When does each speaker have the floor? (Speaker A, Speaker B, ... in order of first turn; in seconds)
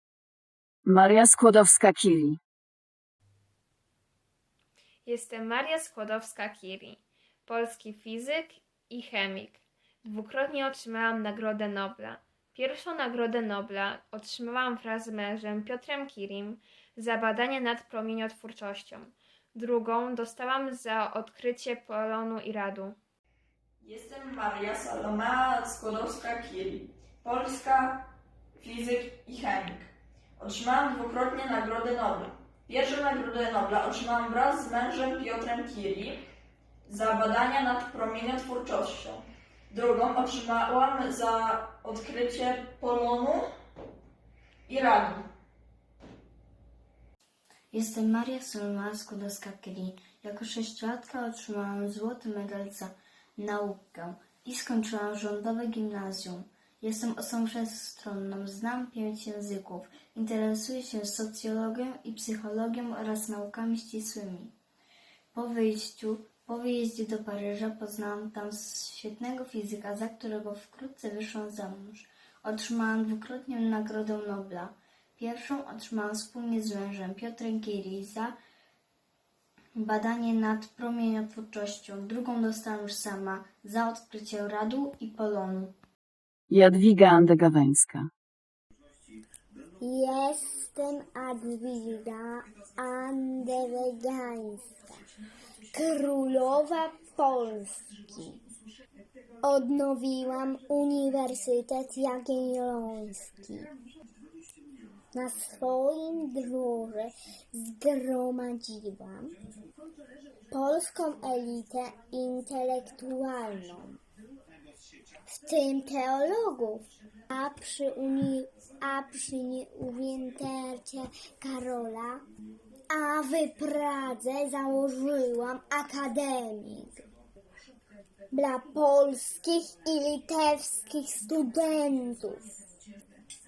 Speaker A: 0.8-2.4, 86.5-88.1
Speaker B: 5.0-23.0
Speaker C: 23.8-28.1, 28.6-36.2, 36.9-43.4, 44.7-45.3
Speaker D: 47.7-64.5, 65.3-78.4, 79.8-85.7
Speaker E: 89.8-95.0, 95.7-98.4, 99.4-103.7, 105.1-109.3, 110.5-114.0, 115.3-122.2, 122.9-127.0, 128.3-132.4